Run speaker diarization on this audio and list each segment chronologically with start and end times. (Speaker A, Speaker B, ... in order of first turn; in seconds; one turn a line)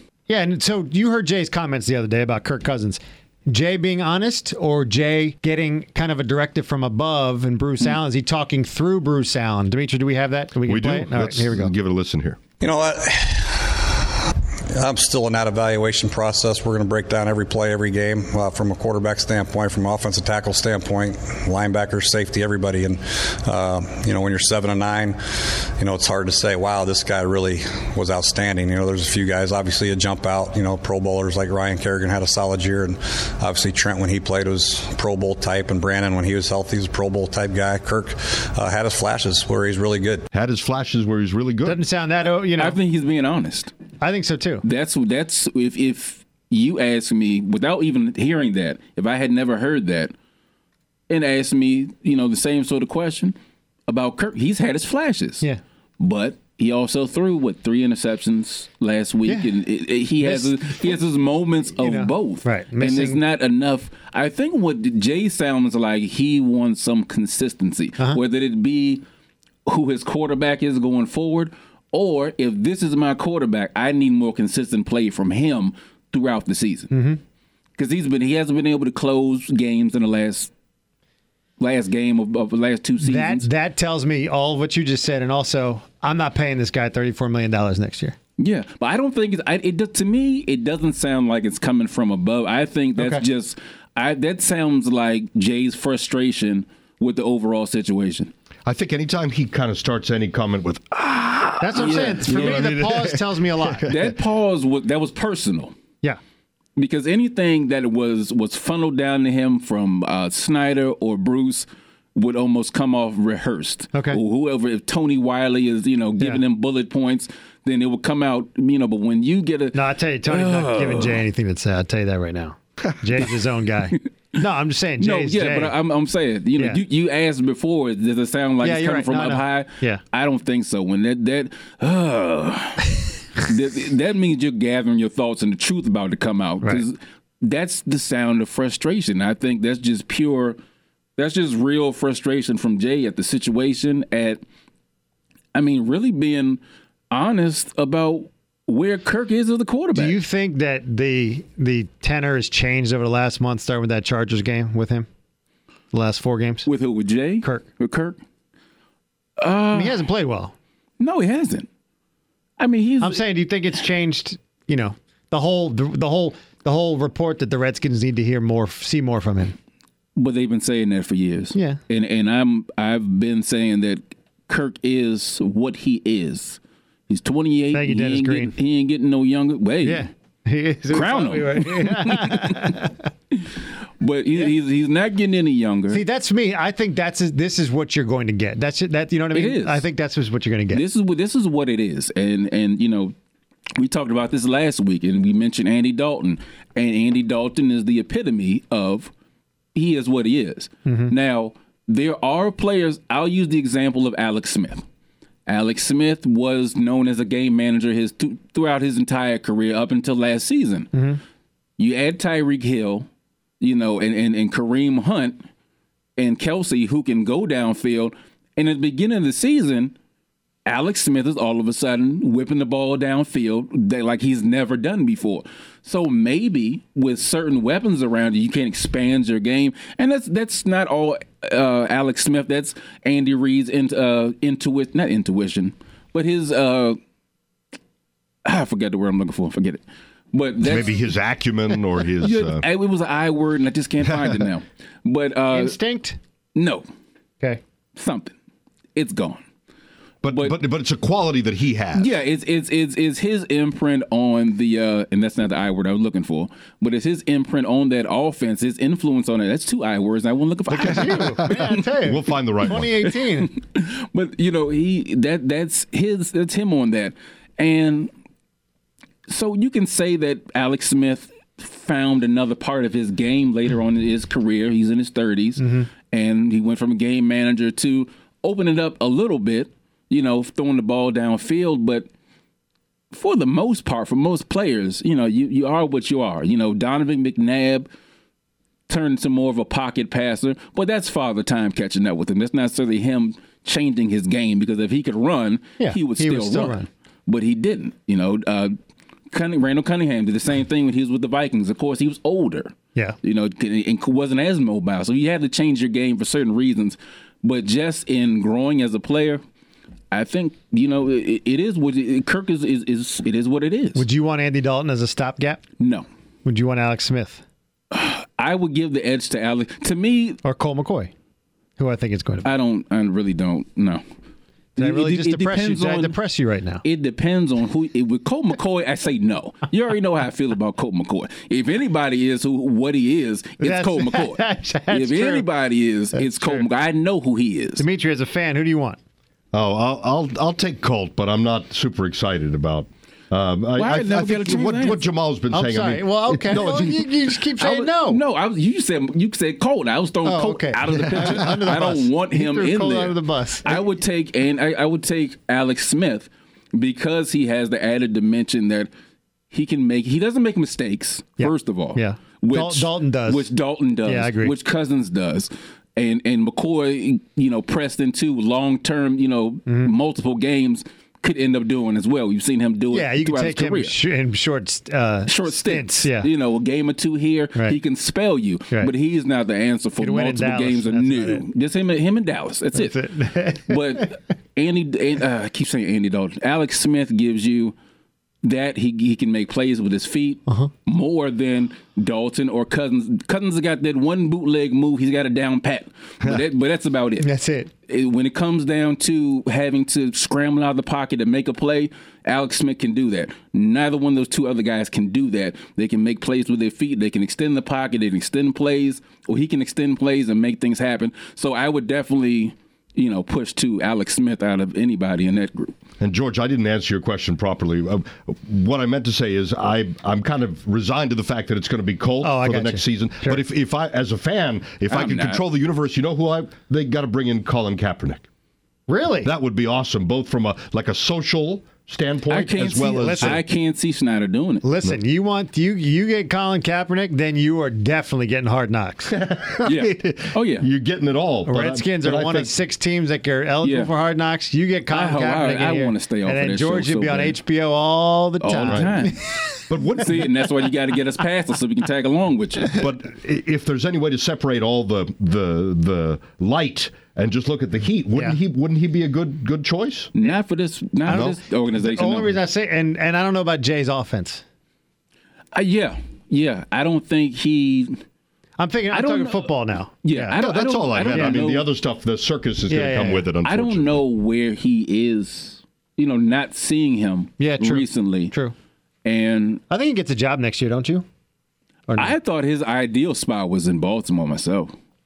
Speaker A: 0.3-11.7
Speaker B: 10.7-12.4
Speaker C: 12.6-14.0
Speaker C: 14.7-25.2
Speaker C: 25.8-40.3
Speaker B: 40.3-41.8
Speaker A: 41.6-42.8
Speaker D: 42.6-43.7
Speaker A: 44.0-44.6
Speaker D: 44.6-50.1
Speaker D: 51.1-53.3
Speaker D: 53.9-55.5
Speaker D: 56.0-69.0
Speaker A: 60.2-60.9
Speaker A: 61.8-63.2
Speaker D: 69.7-76.9
Speaker A: 76.9-77.2
Speaker D: 77.8-80.5
Speaker D: 81.6-83.5
Speaker A: 83.0-88.2
Speaker D: 88.4-98.3
Speaker A: 93.0-93.2
Speaker B: 98.7-104.1
Speaker A: 101.6-103.9
Speaker D: 101.8-102.8
Speaker D: 103.9-105.7
Speaker D: 106.8-121.2
Speaker A: 113.9-114.2
Speaker A: 119.7-125.7
Speaker D: 125.0-140.6
Speaker A: 128.6-130.0
Speaker D: 141.2-144.4
Speaker D: 145.5-146.6
Speaker D: 147.1-150.2
Speaker A: 149.9-155.1
Speaker A: 155.9-156.7
Speaker D: 156.7-158.2
Speaker D: 159.4-160.0
Speaker A: 159.7-160.5
Speaker D: 161.0-161.7
Speaker D: 162.6-163.2
Speaker A: 163.0-169.6
Speaker D: 170.2-180.1
Speaker A: 171.5-171.8
Speaker A: 177.7-178.5
Speaker A: 179.8-183.0
Speaker D: 180.9-186.0
Speaker A: 185.9-190.8
Speaker D: 189.3-189.8
Speaker D: 190.7-193.1
Speaker D: 193.8-199.1
Speaker D: 199.7-204.8
Speaker A: 200.8-201.1
Speaker D: 205.5-210.9
Speaker A: 210.9-211.2
Speaker D: 211.8-213.1
Speaker D: 213.6-215.4
Speaker D: 216.2-219.9
Speaker D: 220.7-237.0
Speaker D: 238.4-241.0
Speaker B: 240.6-242.6
Speaker D: 242.2-245.8
Speaker A: 245.5-246.2
Speaker D: 246.5-246.8
Speaker D: 247.9-248.3
Speaker D: 248.9-249.4
Speaker B: 250.2-252.1
Speaker D: 251.9-261.8
Speaker B: 260.7-262.9
Speaker A: 260.8-263.5
Speaker D: 262.7-268.1
Speaker D: 269.3-282.1
Speaker A: 275.6-275.9
Speaker D: 283.1-287.9
Speaker D: 288.9-298.7
Speaker A: 295.8-296.9
Speaker D: 299.3-309.4
Speaker D: 310.1-314.1
Speaker A: 313.9-315.6
Speaker D: 315.8-316.1
Speaker A: 316.4-317.4
Speaker D: 317.9-320.4
Speaker A: 320.4-321.1
Speaker A: 321.8-322.5
Speaker D: 322.4-324.0
Speaker D: 324.8-326.1
Speaker A: 324.8-326.8
Speaker D: 326.8-337.8
Speaker A: 333.6-335.5
Speaker A: 336.1-336.6
Speaker A: 337.8-339.0
Speaker B: 339.5-347.1
Speaker D: 343.8-345.0
Speaker A: 345.5-348.2
Speaker D: 347.6-358.9
Speaker A: 350.2-353.8
Speaker D: 359.5-373.9
Speaker A: 361.4-363.5
Speaker A: 364.0-364.5
Speaker A: 369.7-369.9
Speaker A: 372.9-376.3
Speaker D: 375.3-383.0
Speaker A: 380.0-381.4
Speaker A: 382.7-384.1
Speaker D: 383.7-387.7
Speaker D: 388.4-397.3
Speaker A: 397.2-397.7
Speaker D: 397.9-415.7
Speaker B: 416.0-428.2
Speaker A: 422.2-423.4
Speaker D: 424.9-425.4
Speaker A: 428.9-429.3
Speaker B: 429.2-433.4
Speaker D: 432.3-434.6
Speaker A: 432.8-433.4
Speaker A: 434.6-439.1
Speaker B: 439.1-442.5
Speaker D: 439.6-440.6
Speaker A: 441.5-449.6
Speaker D: 443.6-443.9
Speaker D: 444.9-447.4
Speaker D: 448.4-449.2
Speaker B: 448.6-449.1
Speaker B: 449.7-450.3
Speaker D: 449.9-452.8
Speaker B: 452.7-460.1
Speaker D: 460.1-462.3
Speaker A: 461.1-464.4
Speaker B: 461.1-461.4
Speaker D: 465.5-468.0
Speaker A: 468.6-470.4
Speaker D: 468.9-469.5
Speaker D: 470.0-471.7
Speaker B: 470.4-474.0
Speaker A: 471.1-471.4
Speaker A: 472.7-473.3
Speaker D: 473.4-478.3
Speaker A: 477.4-478.5
Speaker D: 479.0-479.6
Speaker A: 479.7-481.1
Speaker A: 481.9-482.1
Speaker D: 482.0-484.7